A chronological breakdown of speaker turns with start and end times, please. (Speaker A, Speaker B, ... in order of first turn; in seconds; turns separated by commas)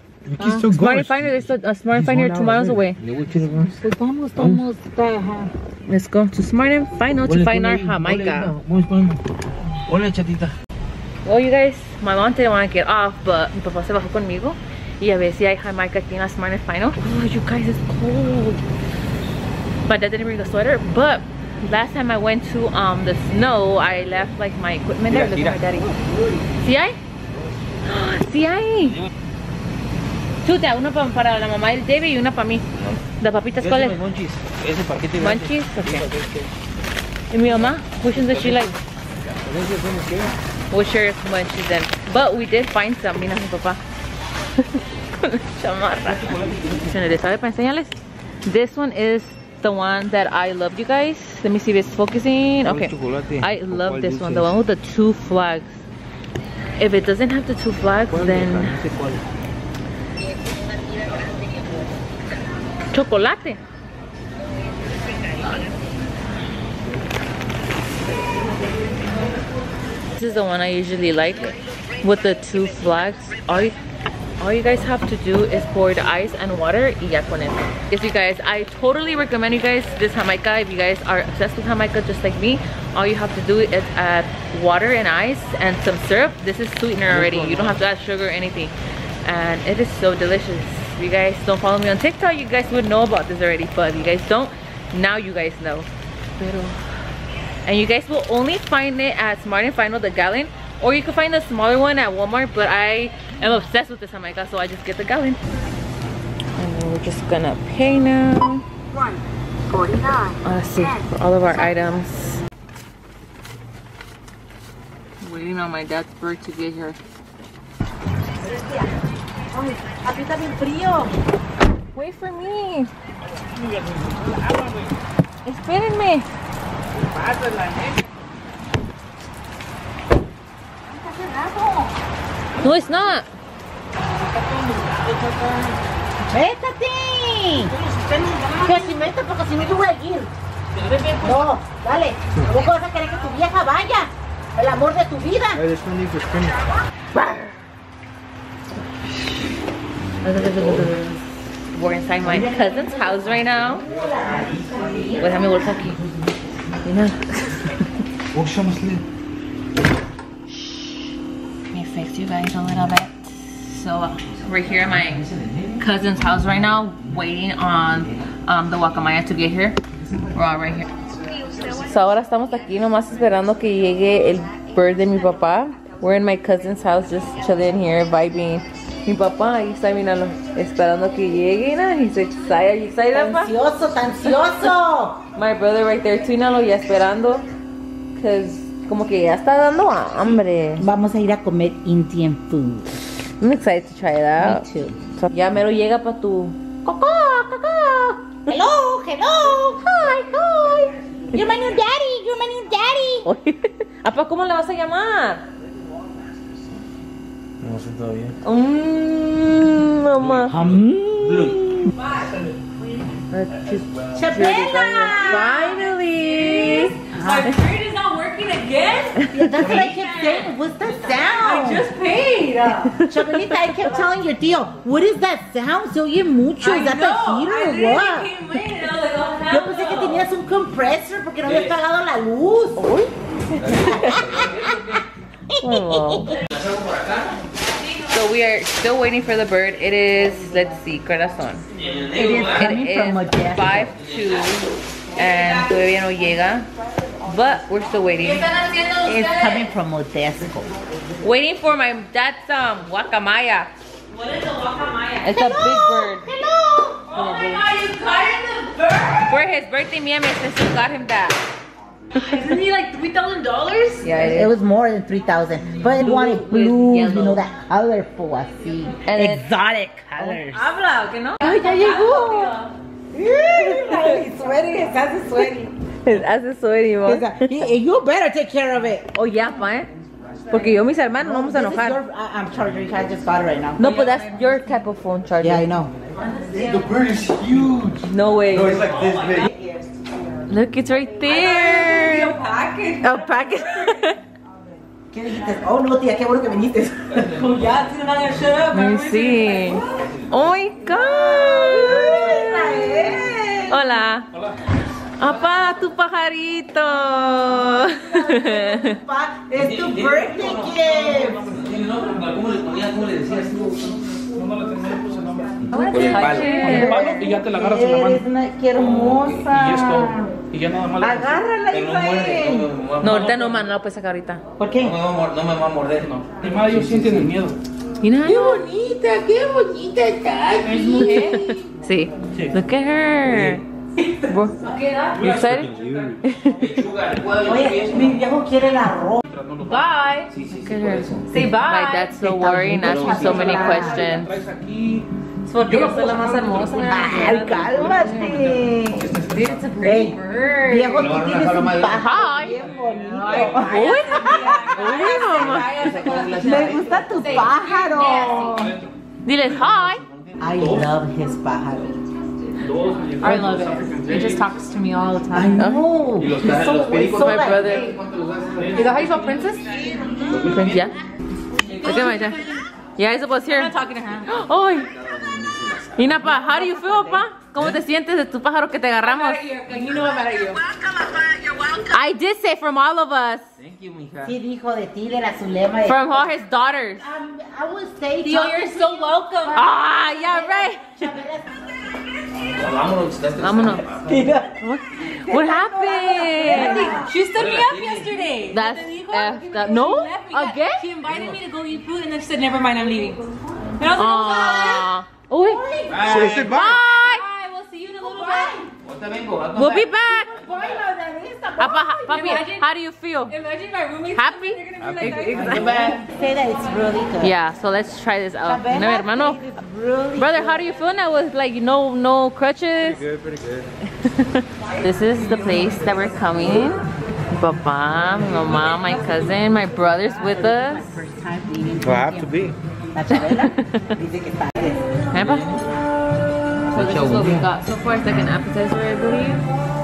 Speaker A: 0.4-0.7, Speaker B: 0.4-1.4, Speaker C: 0.6-3.0, Speaker A: 2.0-2.8, Speaker D: 3.0-3.8, Speaker A: 3.8-5.5, Speaker D: 4.4-4.6, Speaker C: 5.9-8.5, Speaker D: 7.2-9.2, Speaker D: 9.9-10.6, Speaker C: 11.2-18.6, Speaker C: 19.9-25.9, Speaker D: 25.1-25.6, Speaker C: 26.6-27.0, Speaker C: 27.9-29.0, Speaker C: 30.4-32.6, Speaker D: 32.8-33.0, Speaker C: 33.2-34.0, Speaker D: 33.6-36.4, Speaker C: 35.2-36.1, Speaker B: 36.0-36.5, Speaker C: 37.3-38.8, Speaker D: 38.3-38.5, Speaker B: 39.5-40.3, Speaker D: 39.5-40.3, Speaker C: 40.7-43.8, Speaker C: 45.2-55.8, Speaker B: 46.4-46.7, Speaker D: 52.6-54.5, Speaker B: 53.3-54.4, Speaker C: 56.8-58.8, Speaker B: 58.1-59.2, Speaker D: 58.9-59.1, Speaker A: 60.5-61.8, Speaker C: 62.9-63.6, Speaker A: 65.1-65.7, Speaker C: 70.2-73.8, Speaker C: 74.4-96.8, Speaker B: 87.4-87.7, Speaker C: 97.7-105.4, Speaker C: 106.6-108.6, Speaker E: 109.9-110.2, Speaker C: 110.4-112.4, Speaker C: 115.2-117.0, Speaker A: 118.4-118.8, Speaker A: 119.5-121.2, Speaker C: 122.0-122.9, Speaker B: 123.5-124.9, Speaker C: 125.5-126.3, Speaker B: 127.2-127.9, Speaker A: 130.9-131.9, Speaker C: 132.6-133.3, Speaker A: 134.2-135.6, Speaker A: 136.3-137.8, Speaker A: 138.6-140.3, Speaker A: 141.2-145.7, Speaker B: 145.5-146.7, Speaker C: 147.2-147.4, Speaker C: 150.2-153.8, Speaker A: 152.2-155.8, Speaker D: 153.9-155.2, Speaker C: 155.2-156.0, Speaker C: 156.8-157.8, Speaker B: 158.3-159.0, Speaker D: 158.3-158.9, Speaker C: 161.7-165.3, Speaker D: 164.3-167.0, Speaker C: 165.8-169.8, Speaker C: 170.3-170.9, Speaker C: 171.7-183.6, Speaker A: 183.1-185.2, Speaker C: 185.3-187.5, Speaker C: 188.2-190.8, Speaker A: 190.8-192.9, Speaker C: 193.4-194.7, Speaker A: 194.4-195.0, Speaker C: 195.2-196.6, Speaker A: 196.8-200.4, Speaker C: 200.1-200.9, Speaker A: 201.3-203.3, Speaker C: 203.2-205.4, Speaker D: 207.6-208.4, Speaker C: 208.4-210.5, Speaker D: 210.2-211.6, Speaker A: 210.5-211.9, Speaker E: 211.9-212.4, Speaker C: 213.3-217.0, Speaker A: 214.1-215.8, Speaker E: 215.0-223.0, Speaker A: 217.1-217.5, Speaker C: 219.3-219.6, Speaker A: 219.3-221.9, Speaker C: 222.9-223.3, Speaker A: 223.1-228.4, Speaker E: 226.6-230.2, Speaker A: 229.4-232.9, Speaker D: 231.4-231.8, Speaker C: 232.8-233.1, Speaker D: 233.6-235.0, Speaker C: 233.7-234.2, Speaker A: 233.7-234.7, Speaker A: 235.5-236.4, Speaker C: 235.6-236.3, Speaker D: 236.5-237.4, Speaker E: 237.6-238.3, Speaker C: 238.1-241.7, Speaker D: 241.8-242.8, Speaker A: 242.1-243.9, Speaker C: 242.2-246.7, Speaker D: 244.0-244.5, Speaker E: 245.1-245.9, Speaker C: 247.2-248.5, Speaker E: 248.2-249.7, Speaker A: 249.0-250.7, Speaker C: 251.2-253.7, Speaker E: 254.1-255.6, Speaker C: 255.2-256.3, Speaker A: 255.3-257.6, Speaker E: 257.0-259.3, Speaker C: 259.3-261.4, Speaker E: 262.1-264.3, Speaker C: 264.0-264.5, Speaker A: 264.2-270.6, Speaker C: 265.9-267.5, Speaker E: 268.7-268.9, Speaker C: 269.1-269.5, Speaker C: 270.2-271.5, Speaker A: 271.4-272.5, Speaker E: 271.4-272.7, Speaker A: 273.1-275.7, Speaker C: 273.7-274.2, Speaker C: 276.0-277.6, Speaker A: 277.0-279.1, Speaker C: 279.1-279.9, Speaker C: 280.5-282.0, Speaker A: 281.2-284.1, Speaker C: 283.8-285.7, Speaker E: 283.9-284.3, Speaker A: 285.4-285.9, Speaker E: 286.3-286.7, Speaker B: 286.5-289.5, Speaker C: 288.0-288.9, Speaker E: 288.8-289.7, Speaker C: 290.5-292.4, Speaker E: 291.2-294.1, Speaker C: 293.0-294.2, Speaker A: 295.1-297.3, Speaker D: 297.1-297.5, Speaker E: 297.3-300.1, Speaker C: 298.7-302.4, Speaker D: 299.8-300.3, Speaker E: 300.9-302.4, Speaker A: 301.0-304.0, Speaker C: 303.7-304.3, Speaker F: 304.3-304.6, Speaker C: 305.2-309.0, Speaker A: 308.1-311.4, Speaker D: 309.6-314.0, Speaker F: 311.2-311.5, Speaker F: 313.9-318.3, Speaker D: 315.6-316.6, Speaker C: 315.7-317.2, Speaker E: 315.7-316.8, Speaker A: 316.5-320.4, Speaker D: 318.8-319.5, Speaker F: 319.4-321.5, Speaker A: 321.0-322.7, Speaker D: 321.7-323.6, Speaker C: 323.0-324.4, Speaker A: 324.6-325.0, Speaker D: 324.8-327.3, Speaker F: 326.0-327.6, Speaker C: 328.0-328.6, Speaker E: 328.3-329.3, Speaker A: 328.3-331.3, Speaker E: 330.3-331.7, Speaker C: 330.9-333.6, Speaker F: 332.3-332.6, Speaker C: 334.2-334.6, Speaker E: 334.5-336.2, Speaker B: 335.1-336.2, Speaker C: 335.2-335.7, Speaker C: 336.2-336.7, Speaker D: 336.6-338.2, Speaker A: 337.4-339.2, Speaker F: 339.3-339.9, Speaker C: 339.7-344.3, Speaker E: 339.7-340.3, Speaker D: 340.3-341.3, Speaker E: 341.3-342.3, Speaker A: 342.2-344.1, Speaker D: 342.7-343.7, Speaker E: 343.0-343.7, Speaker F: 343.5-345.1, Speaker C: 345.5-348.5, Speaker F: 345.6-349.5, Speaker A: 346.9-349.1, Speaker E: 349.2-351.0, Speaker A: 349.8-355.5, Speaker D: 351.0-352.2, Speaker C: 351.9-352.6, Speaker F: 352.6-353.5, Speaker E: 353.0-358.7, Speaker C: 353.6-355.7, Speaker D: 355.6-357.1, Speaker A: 356.2-358.7, Speaker F: 358.5-358.9, Speaker C: 359.2-360.0, Speaker D: 359.4-360.9, Speaker A: 360.4-362.0, Speaker F: 360.6-360.8, Speaker F: 362.6-364.5, Speaker E: 363.2-365.7, Speaker A: 365.3-367.8, Speaker C: 365.6-365.9, Speaker D: 366.2-369.0, Speaker C: 367.2-367.9, Speaker F: 368.6-369.3, Speaker E: 368.7-370.5, Speaker A: 369.7-370.4, Speaker D: 370.2-370.8, Speaker C: 370.5-371.0, Speaker E: 371.6-372.6, Speaker C: 371.8-372.4, Speaker C: 373.0-374.9, Speaker E: 373.4-374.3, Speaker D: 374.9-376.2, Speaker C: 376.0-379.4, Speaker A: 376.2-377.2, Speaker E: 379.0-380.7, Speaker D: 381.0-381.7, Speaker C: 381.9-383.5, Speaker D: 383.6-384.4, Speaker A: 384.2-386.4, Speaker C: 385.9-387.1, Speaker A: 387.0-391.6, Speaker E: 388.2-389.7, Speaker C: 389.5-390.9, Speaker D: 392.4-394.3, Speaker C: 393.4-393.9, Speaker A: 394.1-397.2, Speaker C: 394.6-397.0, Speaker E: 396.4-403.2, Speaker D: 397.2-398.3, Speaker C: 398.5-400.9, Speaker D: 401.1-401.4, Speaker A: 402.9-403.4, Speaker E: 403.8-404.9, Speaker C: 403.9-407.2, Speaker A: 405.4-406.3, Speaker D: 405.9-406.5, Speaker B: 406.0-406.8, Speaker E: 406.5-408.7, Speaker A: 408.0-408.7, Speaker D: 408.8-410.8, Speaker C: 409.6-410.3, Speaker A: 410.1-412.3, Speaker C: 411.6-413.3, Speaker E: 412.0-412.7, Speaker E: 413.3-416.9, Speaker C: 414.1-416.0, Speaker D: 414.8-416.0, Speaker A: 415.3-417.4, Speaker C: 417.2-419.4, Speaker A: 418.4-420.7, Speaker C: 420.2-423.0, Speaker B: 422.8-423.7, Speaker C: 423.8-430.9, Speaker E: 424.8-426.7, Speaker E: 428.5-430.2, Speaker A: 430.2-432.3, Speaker B: 431.8-432.6, Speaker A: 432.9-434.8, Speaker C: 433.1-433.9, Speaker C: 435.1-435.5, Speaker D: 435.2-435.6, Speaker D: 436.7-437.5, Speaker C: 436.7-439.4